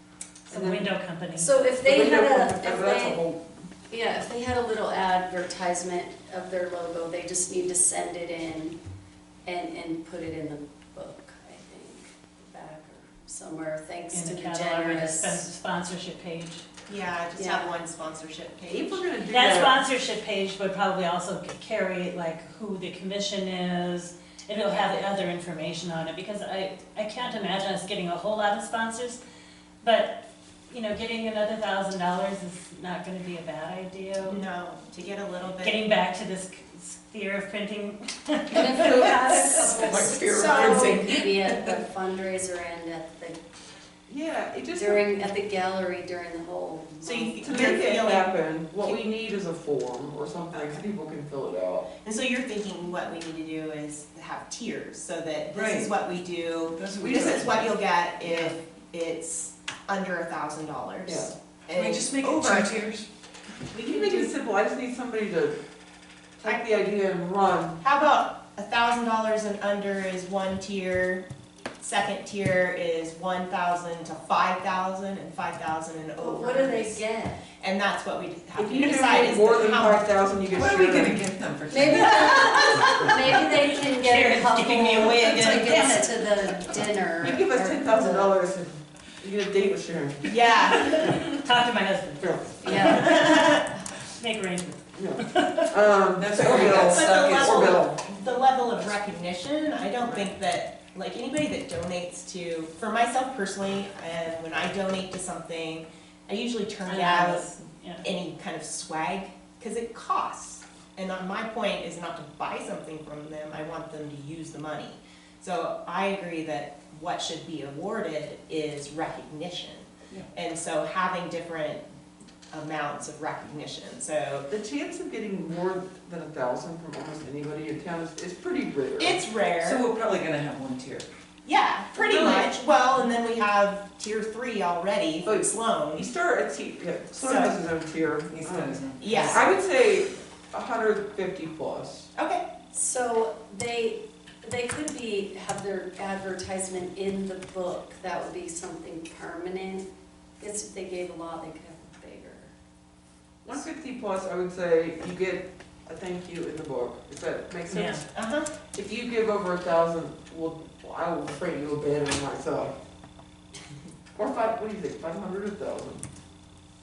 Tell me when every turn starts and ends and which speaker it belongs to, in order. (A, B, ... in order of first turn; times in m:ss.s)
0:00.5-0:00.9 A
0:00.5-0:01.5 B
0:01.4-0:03.2 C
0:01.8-0:03.5 A
0:03.9-0:08.8 C
0:09.4-0:15.5 C
0:14.1-0:16.6 B
0:16.9-0:19.1 D
0:17.4-0:17.7 C
0:18.7-0:19.8 A
0:19.3-0:29.2 B
0:29.8-0:34.4 B
0:34.2-0:35.8 D
0:35.6-0:39.9 B
0:38.5-0:43.4 C
0:38.7-0:39.2 A
0:39.8-0:41.8 E
0:40.3-0:41.0 D
0:44.1-0:45.0 A
0:44.7-0:47.4 C
0:47.0-0:48.3 D
0:47.4-0:51.9 A
0:52.0-1:02.9 D
0:55.5-0:56.0 E
0:56.7-0:58.6 E
0:57.0-0:57.4 A
1:01.0-1:01.3 A
1:01.7-1:03.1 E
1:03.7-1:04.3 D
1:03.7-1:05.6 A
1:06.4-1:07.8 A
1:07.8-1:11.2 D
1:11.8-1:17.0 D
1:16.2-1:17.4 C
1:17.6-1:20.1 D
1:18.5-1:21.2 A
1:20.5-1:23.1 E
1:21.7-1:28.4 C
1:23.8-1:26.2 B
1:27.2-1:31.2 A
1:30.3-1:31.2 D
1:30.7-1:35.7 B
1:32.2-1:33.0 A
1:32.6-1:33.5 C
1:32.7-1:33.6 D
1:34.9-1:38.0 A
1:36.2-1:37.9 E
1:36.6-1:47.5 D
1:40.0-1:40.3 E
1:46.8-1:48.1 B
1:48.0-2:01.8 D
2:02.5-2:04.5 D
2:04.5-2:09.2 A
2:09.0-2:09.8 D
2:09.6-2:11.1 E
2:11.4-2:16.1 D
2:11.9-2:12.5 A
2:15.2-2:22.1 A
2:17.2-2:17.6 D
2:18.3-2:19.4 E
2:19.0-2:19.5 D
2:22.2-2:22.5 D
2:22.7-2:29.9 C
2:30.4-2:32.5 C
2:33.4-2:38.0 A
2:37.7-2:38.0 B
2:38.1-2:38.5 D
2:38.7-2:42.7 A
2:44.2-2:46.0 A